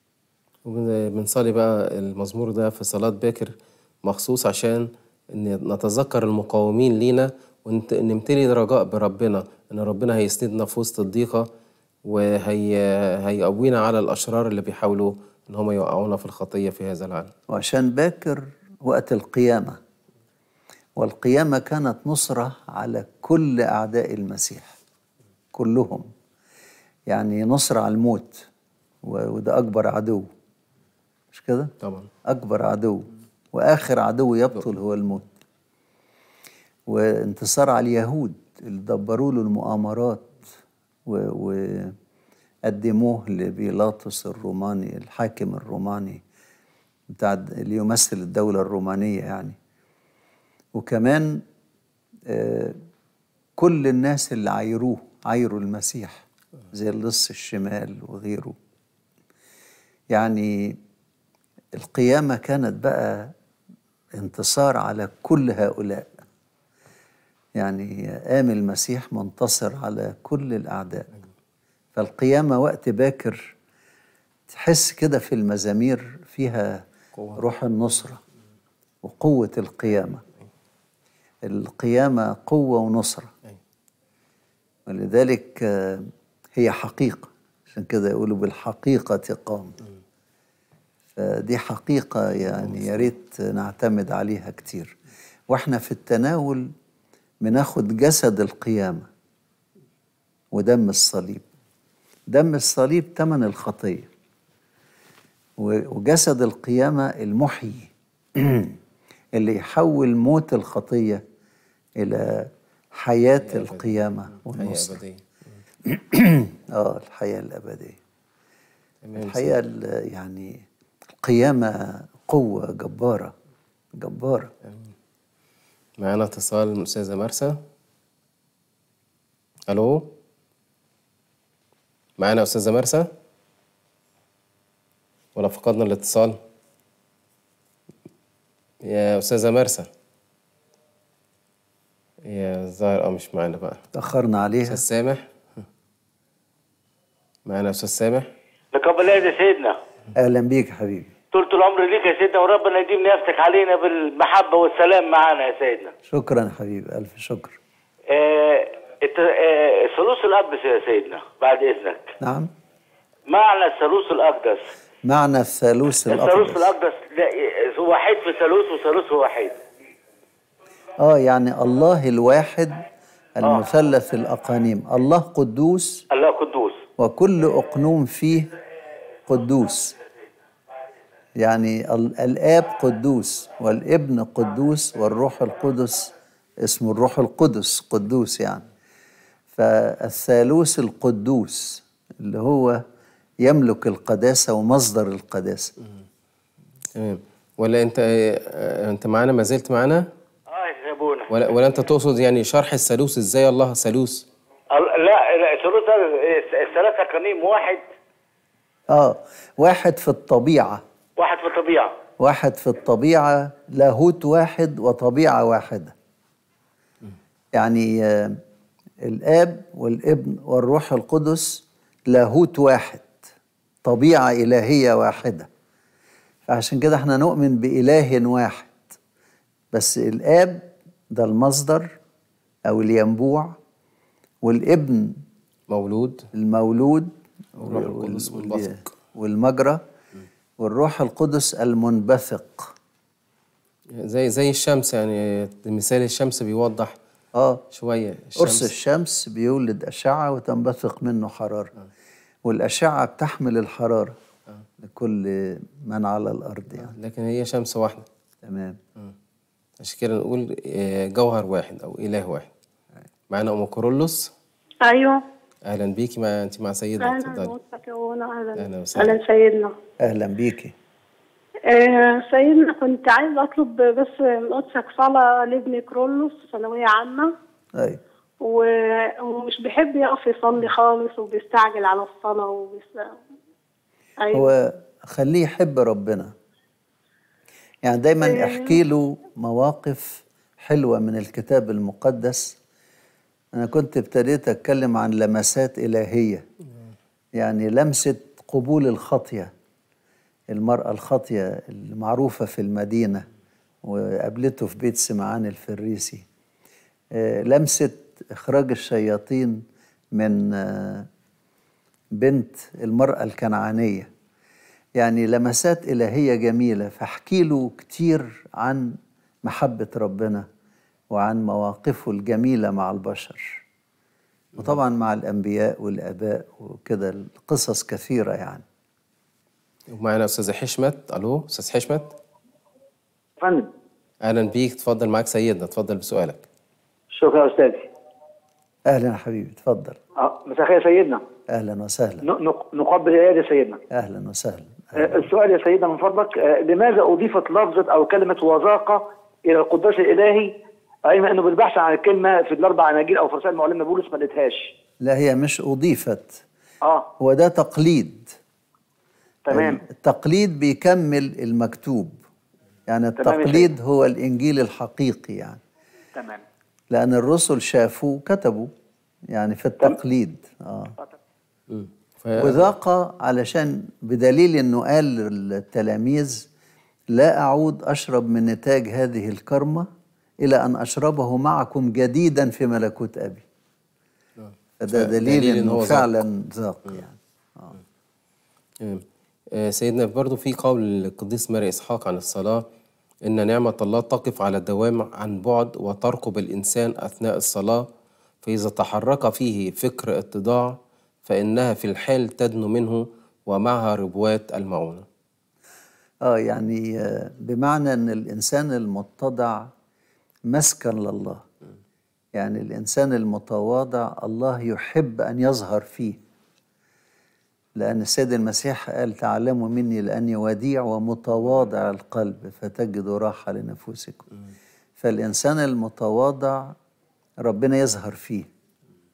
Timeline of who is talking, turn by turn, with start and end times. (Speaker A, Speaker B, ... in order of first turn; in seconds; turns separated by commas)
Speaker A: 0.7-11.5, Speaker A: 12.1-17.3, Speaker B: 17.5-19.8, Speaker B: 21.0-24.8, Speaker B: 25.5-26.1, Speaker B: 27.1-28.5, Speaker B: 29.0-30.3, Speaker B: 31.3-31.7, Speaker A: 31.8-32.1, Speaker B: 32.2-35.3, Speaker B: 36.9-40.4, Speaker B: 41.1-42.0, Speaker B: 42.7-46.2, Speaker B: 47.1-49.6, Speaker B: 50.7-51.4, Speaker B: 52.3-52.8, Speaker B: 53.6-58.6, Speaker B: 60.1-60.8, Speaker B: 61.7-63.3, Speaker B: 64.2-66.2, Speaker B: 67.6-71.1, Speaker B: 72.0-73.5, Speaker B: 74.5-76.8, Speaker B: 77.4-78.2, Speaker B: 79.0-80.2, Speaker B: 81.4-83.3, Speaker B: 84.9-89.8, Speaker B: 91.2-95.0, Speaker A: 92.5-93.1, Speaker B: 95.5-96.7, Speaker B: 97.4-99.1, Speaker B: 100.5-101.5, Speaker B: 102.3-104.1, Speaker B: 105.6-108.8, Speaker B: 109.3-111.2, Speaker B: 112.0-115.0, Speaker A: 113.4-115.6, Speaker B: 115.9-118.0, Speaker A: 119.0-119.6, Speaker B: 119.2-120.7, Speaker B: 121.2-123.3, Speaker B: 124.0-124.5, Speaker A: 124.6-124.9, Speaker A: 126.0-127.6, Speaker A: 129.7-130.1, Speaker A: 132.2-133.1, Speaker A: 135.3-136.4, Speaker A: 138.8-139.9, Speaker A: 142.2-143.8, Speaker B: 143.9-144.8, Speaker A: 144.7-145.6, Speaker A: 147.5-148.3, Speaker C: 148.7-149.8, Speaker B: 150.2-151.1, Speaker C: 151.3-155.9, Speaker B: 156.1-157.6, Speaker C: 158.1-162.1, Speaker B: 162.2-162.5, Speaker C: 163.3-164.7, Speaker B: 165.1-166.7, Speaker C: 166.1-169.6, Speaker B: 171.0-172.8, Speaker B: 173.4-176.0, Speaker C: 176.1-176.8, Speaker B: 177.0-178.5, Speaker B: 179.3-179.9, Speaker B: 181.4-186.1, Speaker B: 186.6-188.7, Speaker B: 189.6-192.8, Speaker B: 193.4-195.7, Speaker A: 196.9-200.1, Speaker C: 200.5-201.3, Speaker A: 201.3-204.3, Speaker C: 204.7-207.8, Speaker B: 208.9-210.8, Speaker C: 211.2-211.9, Speaker B: 212.2-215.9, Speaker B: 217.5-218.4, Speaker B: 219.0-223.2, Speaker B: 223.8-225.5, Speaker B: 226.5-228.8, Speaker B: 229.7-231.9, Speaker B: 232.7-233.6, Speaker B: 234.4-235.2, Speaker A: 235.7-236.3, Speaker B: 236.3-239.8, Speaker A: 237.6-238.8, Speaker B: 240.6-242.7, Speaker A: 244.0-247.0, Speaker B: 247.3-247.6, Speaker A: 247.7-248.7, Speaker B: 248.4-251.7, Speaker B: 252.4-254.2, Speaker B: 254.8-256.9, Speaker A: 256.8-258.1, Speaker B: 258.4-258.8, Speaker A: 259.8-262.5, Speaker A: 263.3-264.3, Speaker D: 264.8-265.2, Speaker A: 265.7-267.6, Speaker D: 267.0-269.8, Speaker A: 268.6-269.2, Speaker B: 270.0-270.7, Speaker D: 271.7-277.3, Speaker D: 278.4-283.2, Speaker D: 284.2-284.5, Speaker B: 284.3-286.3, Speaker B: 287.8-292.6, Speaker D: 288.2-288.8, Speaker B: 293.5-296.4, Speaker B: 297.4-299.5, Speaker B: 300.5-303.3, Speaker B: 303.8-306.2, Speaker B: 307.1-311.1, Speaker B: 312.1-314.1, Speaker B: 315.0-320.5, Speaker B: 321.1-323.6, Speaker B: 324.6-328.6, Speaker A: 329.9-332.2, Speaker E: 333.4-333.7, Speaker A: 334.2-336.4, Speaker E: 337.1-337.9, Speaker B: 338.9-340.0, Speaker E: 340.2-341.2, Speaker B: 341.5-342.2, Speaker E: 342.2-343.8, Speaker B: 343.9-344.9, Speaker E: 344.9-350.5, Speaker E: 351.1-354.7, Speaker B: 355.0-356.4, Speaker E: 356.8-357.1, Speaker B: 357.2-358.3, Speaker E: 359.5-359.8, Speaker B: 359.5-362.2, Speaker B: 362.9-365.6, Speaker E: 363.2-363.7, Speaker E: 366.1-366.4, Speaker B: 366.9-368.7, Speaker B: 369.3-370.9, Speaker A: 371.7-372.7, Speaker B: 372.4-376.5, Speaker B: 377.1-379.9, Speaker B: 380.4-383.4, Speaker A: 384.4-386.2, Speaker B: 384.8-387.7, Speaker A: 388.8-392.7, Speaker A: 393.2-397.9, Speaker A: 398.4-405.1, Speaker B: 406.2-409.7, Speaker B: 410.5-411.4, Speaker B: 412.4-416.2, Speaker B: 417.8-424.3, Speaker B: 425.0-426.8, Speaker B: 427.4-428.5